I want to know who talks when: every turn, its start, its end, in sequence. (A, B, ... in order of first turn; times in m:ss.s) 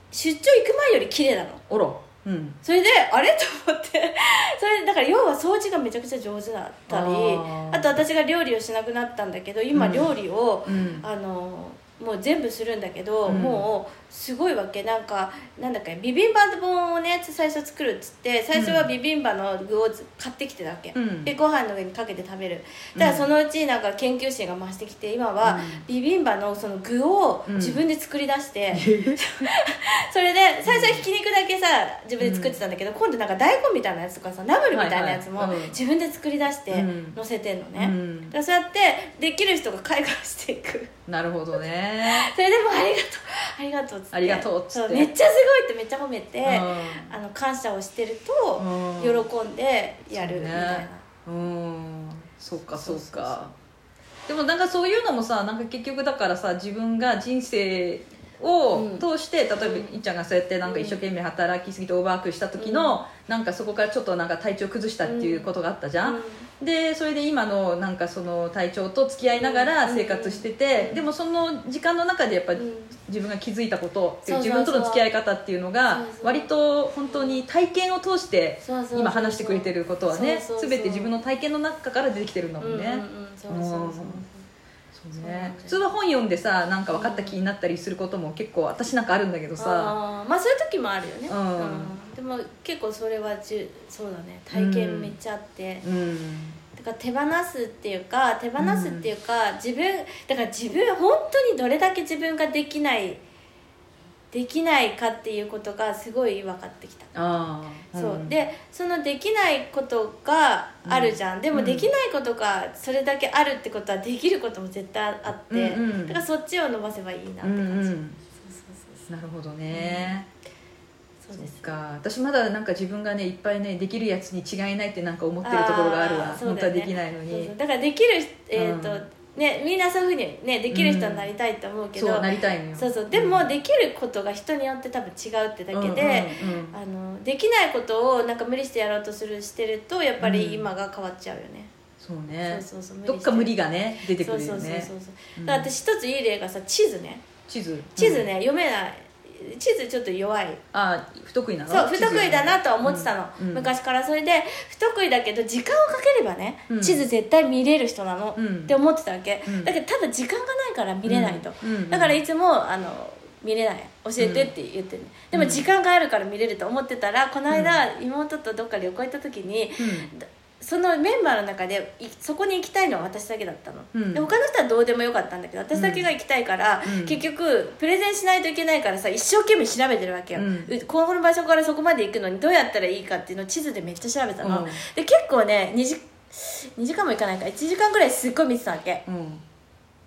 0:00.1-0:01.6 A
0:01.7-0:02.6 B
0:02.6-0:40.9 A
0:06.9-0:07.9 B
0:09.7-0:10.1 B
0:10.6-0:11.0 B
0:13.2-0:13.6 B
0:18.5-0:18.9 B
0:20.9-0:21.3 B
0:22.9-0:23.2 B
0:25.4-0:25.8 B
0:27.5-0:27.8 B
0:28.7-0:29.5 B
0:30.6-0:31.0 B
0:32.2-0:32.6 B
0:34.7-0:35.8 B
0:36.7-0:37.2 B
0:37.8-0:38.3 B
0:41.1-0:42.2 B
0:42.0-0:51.0 A
0:44.1-0:45.1 B
0:46.4-0:47.1 B
0:48.6-0:49.2 B
0:50.1-0:53.5 B
0:52.7-0:53.4 A
0:54.3-1:24.2 B
0:58.7-1:00.0 A
1:00.6-1:01.0 A
1:02.6-1:03.0 A
1:05.0-1:05.5 A
1:06.0-1:06.5 A
1:09.3-1:11.0 A
1:12.6-1:12.9 A
1:14.2-1:15.0 A
1:15.9-1:16.5 A
1:17.0-1:17.4 A
1:18.6-1:21.1 A
1:22.6-1:24.4 A
1:24.9-1:29.9 B
1:25.2-1:25.8 A
1:26.9-1:27.4 A
1:29.6-1:35.8 A
1:31.3-1:31.9 B
1:34.5-1:35.1 B
1:35.8-1:36.6 B
1:36.7-1:43.2 A
1:38.6-1:39.1 B
1:44.3-1:47.1 A
1:47.1-1:48.3 B
1:47.9-1:59.1 A
1:50.8-1:51.9 B
1:55.5-1:56.2 B
1:57.4-1:58.2 B
1:59.1-2:00.2 B
1:59.7-2:00.2 A
2:01.2-2:01.6 A
2:01.3-2:07.5 B
2:05.4-2:21.7 A
2:08.6-2:09.0 B
2:10.7-2:11.3 B
2:12.0-2:13.5 B
2:15.7-2:16.7 B
2:20.2-2:20.7 B
2:22.0-2:25.7 B
2:22.4-2:23.5 A
2:24.1-2:27.2 A
2:27.5-2:28.3 B
2:28.0-2:30.6 A
2:30.7-2:33.7 B
2:31.7-3:09.0 A
2:36.7-2:37.0 B
2:38.4-2:38.7 B
2:39.4-2:39.7 B
2:41.0-2:42.2 B
2:44.2-2:44.5 B
2:45.3-2:45.6 B
2:47.5-2:47.8 B
2:49.8-2:50.1 B
2:53.9-2:54.2 B
2:55.7-2:56.1 B
2:56.8-2:57.2 B
3:00.3-3:00.7 B
3:04.4-3:04.8 B
3:09.1-3:09.4 B